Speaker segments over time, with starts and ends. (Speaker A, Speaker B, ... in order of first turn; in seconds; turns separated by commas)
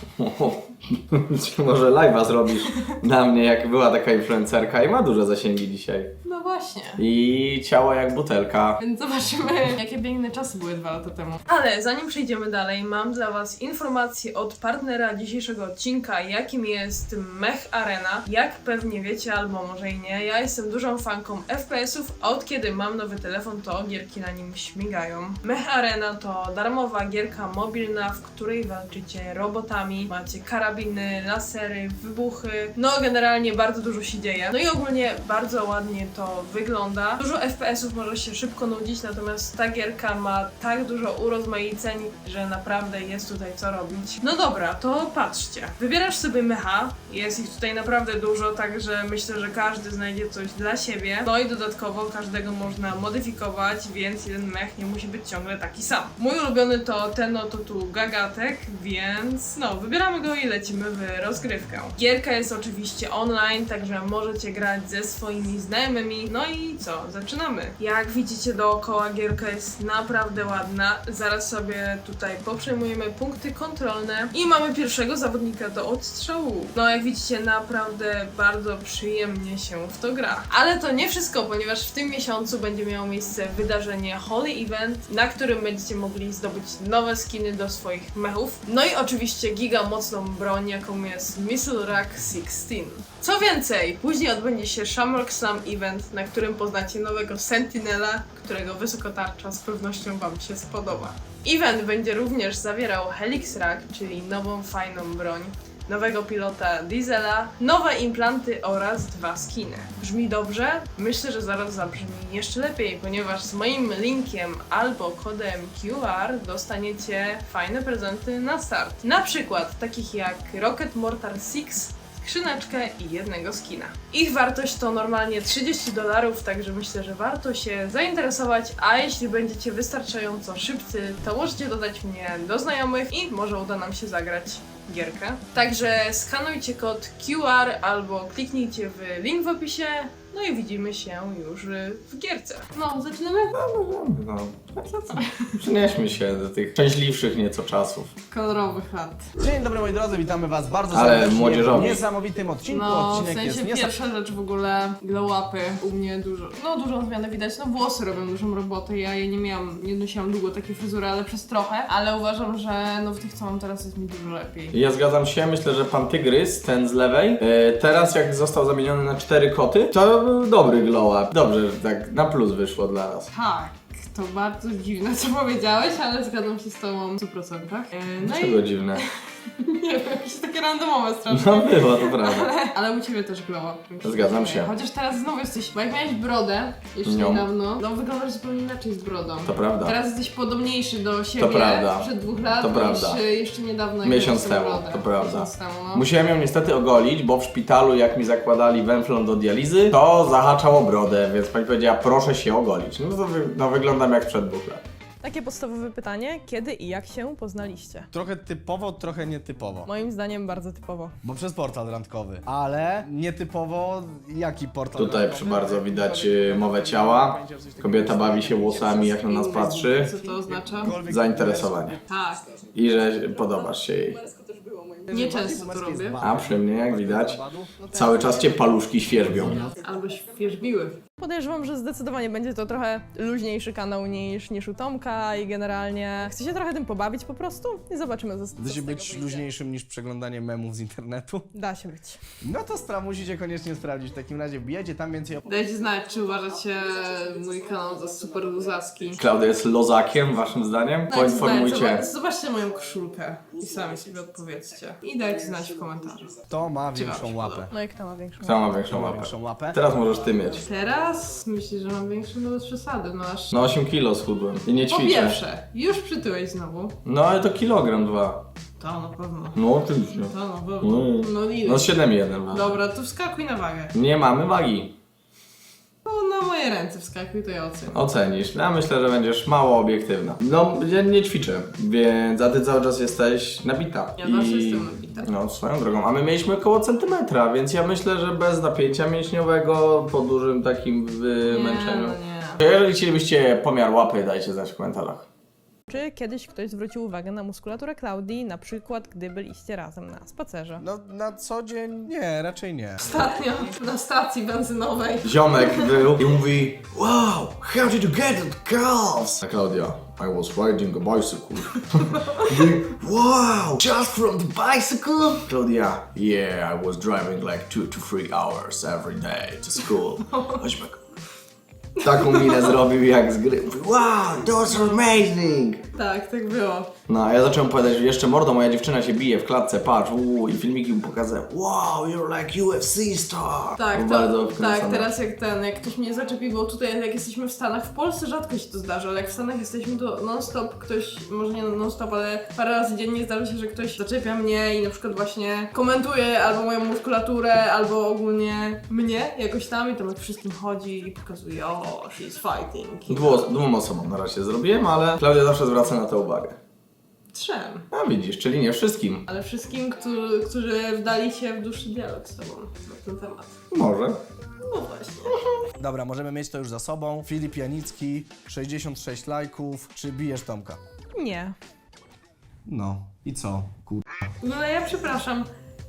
Speaker A: 0.2-6.1, Speaker B: 6.2-7.0, Speaker A: 7.0-8.8, Speaker B: 8.8-143.6, Speaker A: 143.6-148.1, Speaker B: 144.8-145.6, Speaker B: 148.3-149.3, Speaker C: 149.4-153.9, Speaker A: 150.9-152.0, Speaker B: 152.7-164.8, Speaker A: 164.7-173.3, Speaker B: 173.3-196.1, Speaker A: 178.2-179.0, Speaker A: 181.3-182.5, Speaker A: 184.0-184.7, Speaker A: 187.1-187.5, Speaker A: 189.4-189.9, Speaker A: 191.4-193.2, Speaker A: 194.0-204.8, Speaker B: 205.2-208.1, Speaker C: 208.1-209.9, Speaker B: 209.8-211.1, Speaker C: 211.2-219.6, Speaker A: 214.9-220.1, Speaker B: 219.2-221.0, Speaker C: 220.2-222.0, Speaker A: 220.9-222.0, Speaker B: 222.1-222.5, Speaker A: 222.7-224.2, Speaker C: 224.8-228.6, Speaker B: 225.1-226.2, Speaker A: 226.2-227.4, Speaker A: 227.9-229.7, Speaker C: 229.4-229.7, Speaker B: 229.6-239.4, Speaker C: 238.6-241.5, Speaker B: 241.5-242.2, Speaker C: 242.4-245.4, Speaker B: 245.4-249.2, Speaker A: 249.2-252.0, Speaker B: 251.1-256.4, Speaker C: 256.5-257.7, Speaker B: 256.9-258.8, Speaker A: 258.4-260.6, Speaker C: 258.9-259.8, Speaker B: 260.6-263.6, Speaker A: 263.5-265.4, Speaker B: 264.9-266.9, Speaker A: 267.0-268.4, Speaker B: 268.8-272.0, Speaker A: 269.6-272.8, Speaker B: 272.5-273.9, Speaker A: 273.9-274.9, Speaker B: 276.0-278.0, Speaker A: 277.9-295.3, Speaker B: 284.2-285.3, Speaker B: 291.5-292.6, Speaker B: 295.9-300.8, Speaker C: 300.8-303.0, Speaker B: 303.0-306.0, Speaker A: 305.2-321.0, Speaker B: 312.0-312.5, Speaker B: 320.3-320.6, Speaker A: 322.0-325.8, Speaker B: 322.1-322.7, Speaker B: 325.9-326.9, Speaker A: 327.1-335.1, Speaker B: 333.8-353.5, Speaker A: 353.1-356.6, Speaker B: 357.3-357.9, Speaker A: 357.9-359.2, Speaker B: 359.3-363.6, Speaker A: 363.7-364.2, Speaker B: 364.6-365.4, Speaker C: 365.8-370.8, Speaker B: 371.1-371.6, Speaker C: 372.6-374.1, Speaker B: 374.4-375.5